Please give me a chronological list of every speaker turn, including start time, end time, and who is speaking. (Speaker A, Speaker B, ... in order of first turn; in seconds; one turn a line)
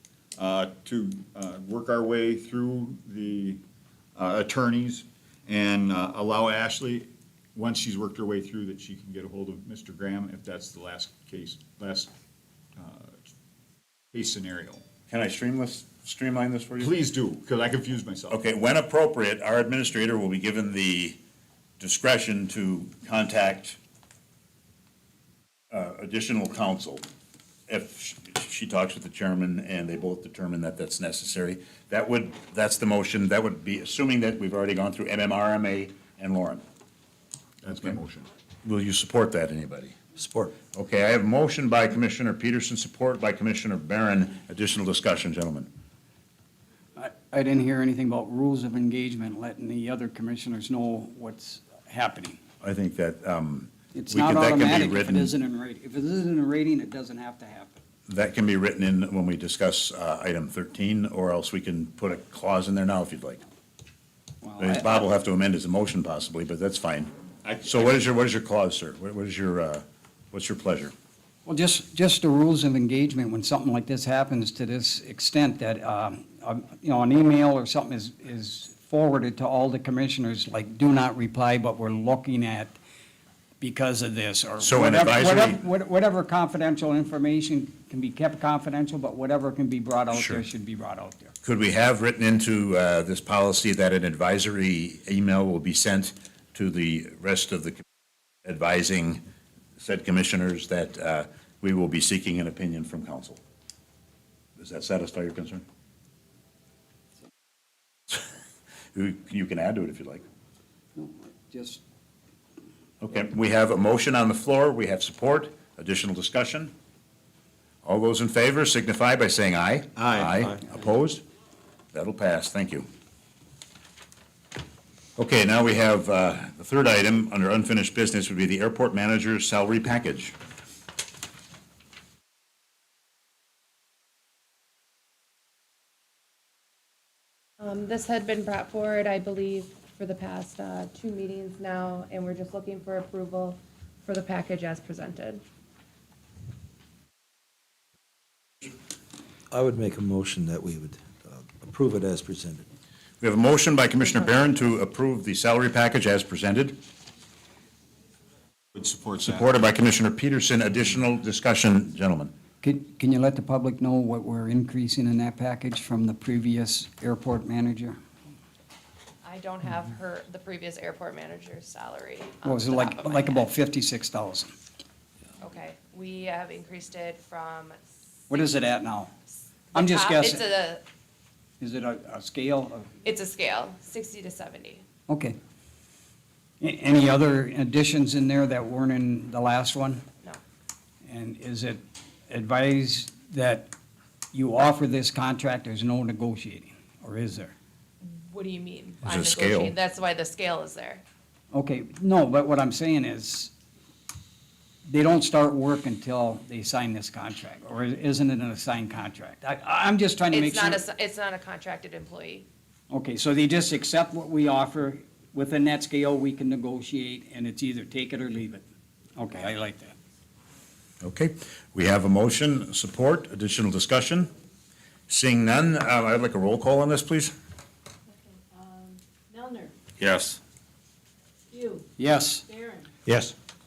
Speaker A: 0.4-3.6
Speaker A: 4.2-12.1
Speaker A: 12.8-13.3
Speaker A: 14.1-14.8
Speaker B: 15.1-17.0
Speaker A: 16.8-18.4
Speaker B: 18.3-21.2
Speaker B: 21.8-23.8
Speaker B: 25.7-27.1
Speaker B: 27.7-36.6
Speaker A: 37.6-38.3
Speaker B: 38.6-40.0
Speaker C: 40.2-40.5
Speaker B: 40.7-45.7
Speaker D: 47.0-52.4
Speaker B: 52.6-55.3
Speaker D: 53.9-57.8
Speaker B: 58.1-63.4
Speaker D: 64.4-65.0
Speaker B: 64.6-67.1
Speaker A: 67.4-68.0
Speaker B: 67.7-70.9
Speaker D: 71.5-82.8
Speaker D: 83.6-91.3
Speaker B: 84.6-85.6
Speaker B: 90.1-90.4
Speaker B: 91.4-97.8
Speaker B: 98.5-99.2
Speaker B: 99.8-103.4
Speaker B: 104.6-105.6
Speaker B: 108.9-110.2
Speaker D: 111.0-111.8
Speaker B: 113.0-116.7
Speaker B: 117.8-121.2
Speaker C: 120.0-120.6
Speaker B: 121.9-122.8
Speaker B: 125.2-130.3
Speaker E: 137.6-145.4
Speaker C: 149.5-152.7
Speaker B: 153.2-156.8
Speaker A: 158.8-159.5
Speaker B: 159.2-162.3
Speaker D: 162.6-168.0
Speaker E: 169.2-173.4
Speaker D: 172.4-174.5
Speaker E: 175.4-178.6
Speaker D: 178.3-179.1
Speaker E: 179.7-180.8
Speaker D: 179.8-180.4
Speaker D: 181.6-182.9
Speaker E: 183.0-184.8
Speaker D: 185.1-185.4
Speaker D: 186.6-190.0
Speaker D: 191.1-193.7
Speaker D: 194.3-197.5
Speaker E: 198.0-201.0
Speaker B: 199.0-199.7
Speaker D: 201.5-203.5
Speaker D: 204.9-210.8
Speaker E: 210.3-212.5
Speaker D: 212.9-218.6
Speaker D: 219.2-220.0
Speaker B: 221.0-224.3
Speaker B: 225.1-227.3
Speaker F: 228.5-229.7
Speaker F: 231.5-231.9
Speaker D: 232.0-232.4
Speaker F: 232.5-232.9
Speaker C: 233.1-233.3